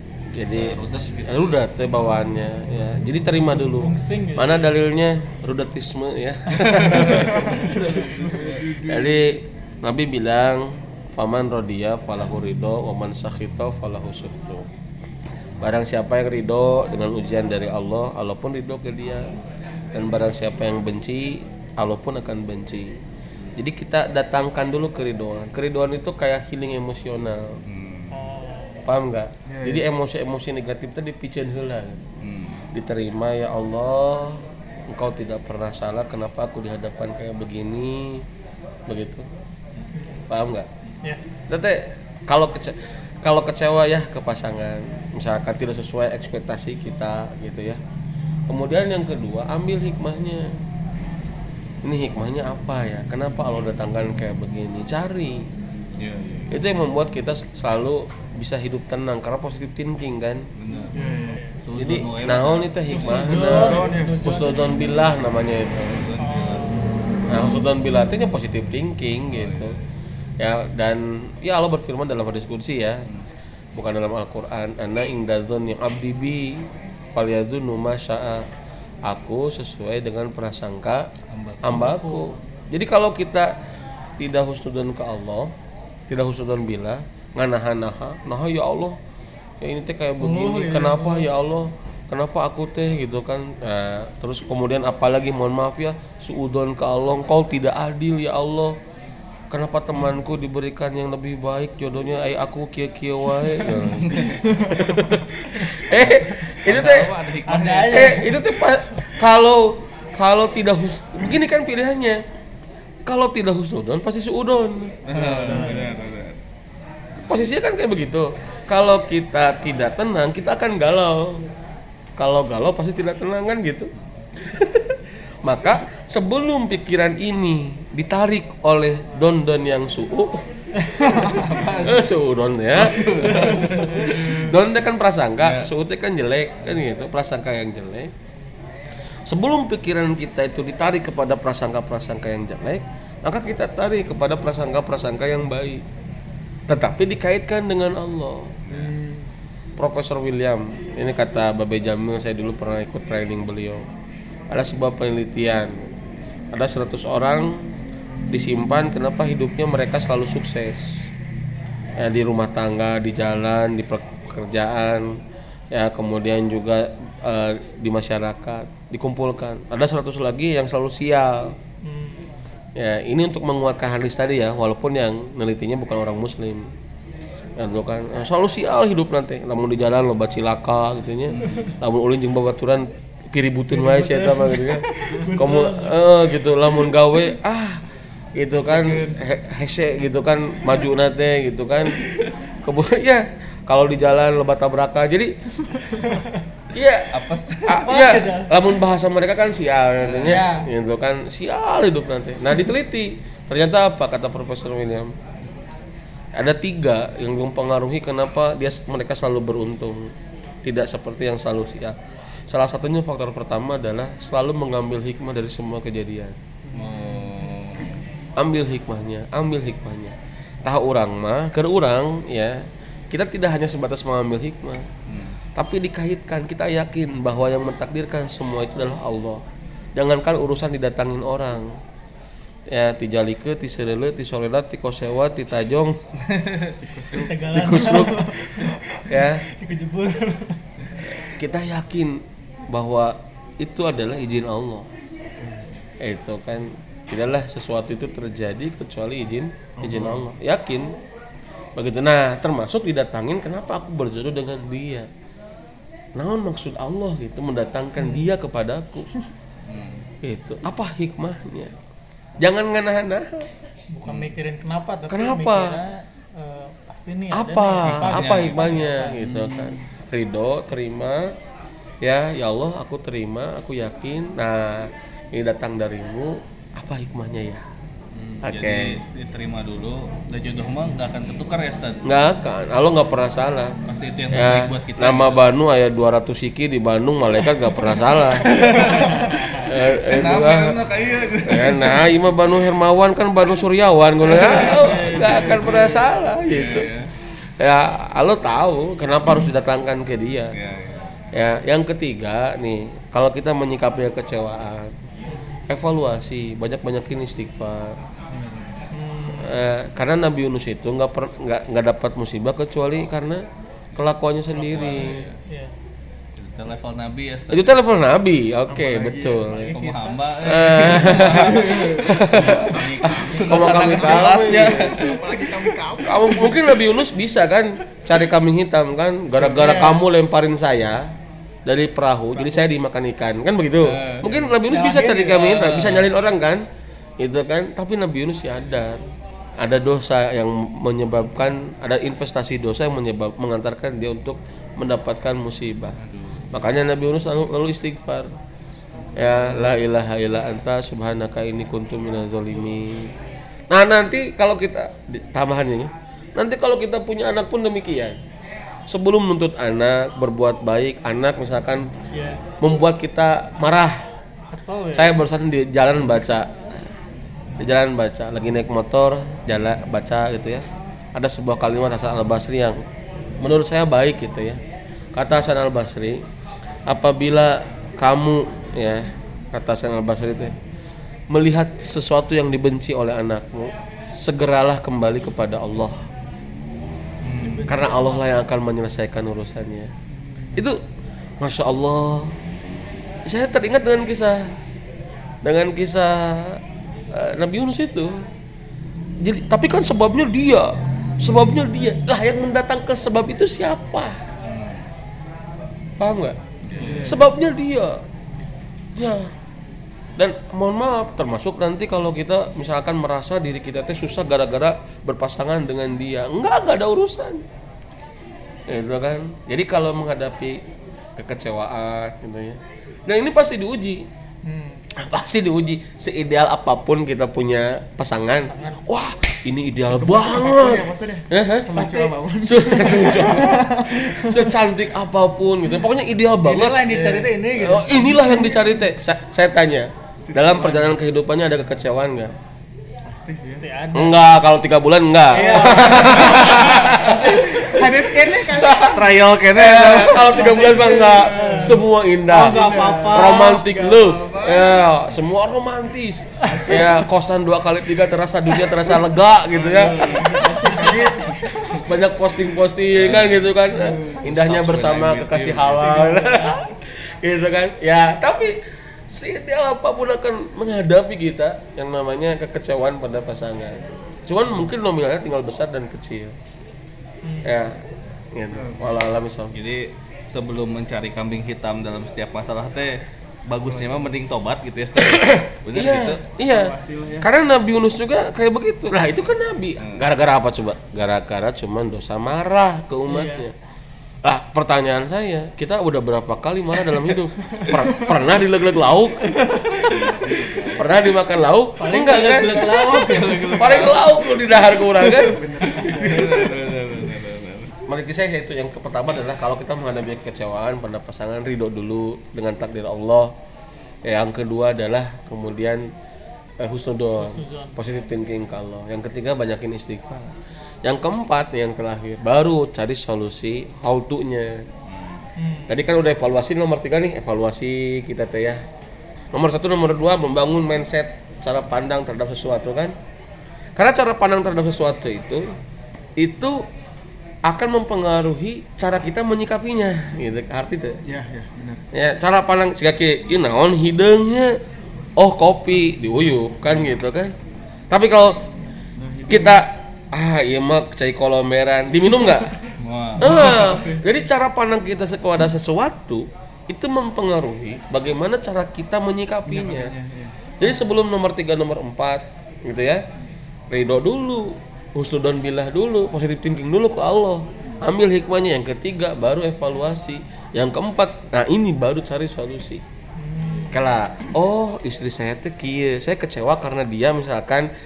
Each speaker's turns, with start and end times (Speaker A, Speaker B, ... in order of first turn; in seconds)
Speaker A: 0.3-7.5, 8.8-14.7, 15.6-19.3, 19.9-23.0, 23.6-27.6, 28.9-32.0, 32.7-38.2, 38.9-39.2, 40.3-40.7, 41.5-47.8, 48.5-50.5, 51.8-55.5, 56.5-60.5, 61.8-66.0, 67.3-69.7, 70.4-73.0, 73.7-78.5, 79.0-81.1, 81.6-83.5, 84.2-85.5, 86.1-89.0, 89.6-98.8, 99.5-107.2, 107.9-112.2, 113.1-115.6, 117.2-121.4, 122.2-130.4, 131.8-138.1, 139.3-145.8, 146.7-148.6, 149.8-153.8, 154.5-155.8, 156.5-157.6, 158.3-161.1, 162.0-165.2, 165.7-171.5, 172.8-176.7, 177.6-187.8, 188.3-192.0, 192.6-195.3, 196.7-205.1, 206.3-216.3, 218.4-224.8, 225.6-229.4, 229.9-231.8, 232.7-235.9, 237.5-239.4, 241.1-244.8, 246.0-250.9, 251.8-255.1, 256.1-259.1, 260.2-261.7, 262.4-263.5, 265.1-265.8, 267.3-271.3, 272.0-277.6, 278.4-279.0, 282.0-283.8, 284.3-288.5, 289.6-290.8, 291.5-296.9, 297.6-300.5, 301.3-304.9, 305.7-308.0, 309.3-313.4, 313.9-315.2, 317.5-319.7, 320.4-325.1, 326.0-331.1, 331.6-336.6, 337.2-339.0, 339.6-346.0, 346.5-348.3, 349.1-353.1, 353.7-358.1, 358.9-361.9, 362.6-364.0, 364.9-366.9, 367.6-372.8, 373.4-374.6, 375.1-376.2, 376.9-380.5, 381.3-386.0, 387.7-389.9, 391.4-392.4, 393.3-394.5, 395.4-396.6, 397.1-398.2, 399.2-404.2, 406.0-406.4, 407.0-408.0, 408.9-409.3, 410.2-417.4, 418.7-420.6, 421.1-424.1, 424.9-431.7, 432.4-436.9, 437.5-442.3, 443.9-448.9, 449.5-460.3, 461.7-468.6, 469.1-476.3, 477.4-479.5, 484.9-493.5, 494.2-506.6, 507.9-513.3, 514.0-515.9, 516.6-524.6, 525.7-528.6, 529.3-532.9, 533.8-535.5, 536.2-536.6, 537.5-541.0, 541.9-544.6, 545.2-547.3, 547.9-548.4, 549.3-552.5, 553.2-559.9, 560.6-563.0, 563.7-572.8, 573.7-577.7
Speaker B: 0.4-1.6, 6.6-8.7, 27.7-28.1, 32.2-32.7, 56.0-56.6, 60.5-60.9, 61.6-62.8, 65.9-66.7, 69.3-69.7, 81.3-81.9, 104.0-104.3, 105.9-108.2, 115.0-116.3, 131.2-132.1, 132.7-134.5, 135.4-135.7, 148.7-148.9, 181.3-181.7, 197.1-197.9, 200.0-200.4, 216.7-218.0, 225.1-225.4, 236.2-237.0, 259.7-260.0, 264.1-264.3, 267.8-268.8, 278.2-282.0, 283.9-285.5, 288.4-292.1, 296.5-297.1, 300.5-301.0, 314.6-315.4, 316.4-317.8, 319.7-325.3, 333.8-334.5, 335.6-336.0, 346.0-346.5, 387.2-387.7, 404.4-404.9, 406.6-407.1, 448.6-450.5, 459.5-460.1, 462.9-463.5, 464.2-466.2, 479.5-486.2, 499.7-500.7, 503.0-507.7, 524.9-525.2, 552.8-553.7
Speaker C: 3.5-4.7, 6.6-8.3, 28.1-28.8, 40.0-40.2, 62.9-64.9, 66.2-66.8, 81.8-82.4, 90.2-91.3, 107.5-108.4, 115.5-115.8, 133.2-134.2, 171.8-172.3, 183.7-186.0, 196.0-196.3, 197.7-198.5, 200.2-200.7, 237.1-240.6, 258.0-258.3, 263.9-269.2, 294.4-295.7, 305.3-305.6, 308.9-309.5, 319.5-319.9, 323.1-323.8, 329.4-330.0, 334.7-335.9, 362.1-362.4, 364.5-365.1, 387.4-388.4, 424.4-424.8, 428.5-428.8, 431.7-432.1, 436.4-437.9, 443.5-444.2, 445.3-447.1, 450.3-453.6, 459.8-460.9, 477.2-477.5, 493.1-493.4, 501.8-503.8, 517.2-517.8, 525.4-525.7, 573.2-573.8
Speaker D: 6.8-9.3, 29.5-29.8, 60.9-61.4, 63.1-64.1, 104.2-105.1, 115.1-115.9, 131.0-131.4, 148.7-149.3, 188.7-189.2, 216.7-217.9, 236.8-238.3, 245.4-245.7, 249.8-250.3, 269.2-269.8, 308.3-308.7, 318.7-319.6, 321.1-322.0, 323.6-326.8, 348.9-349.7, 390.1-390.6, 406.8-407.2, 429.9-434.5, 436.8-437.3, 437.9-438.8, 440.2-440.9, 443.1-443.7, 445.4-449.0, 450.0-454.9, 456.4-457.0, 460.0-461.9, 463.7-464.2, 478.5-478.9, 483.6-484.1, 486.4-487.3, 505.2-506.6, 541.1-541.8, 549.0-549.6, 553.2-554.0, 559.5-560.4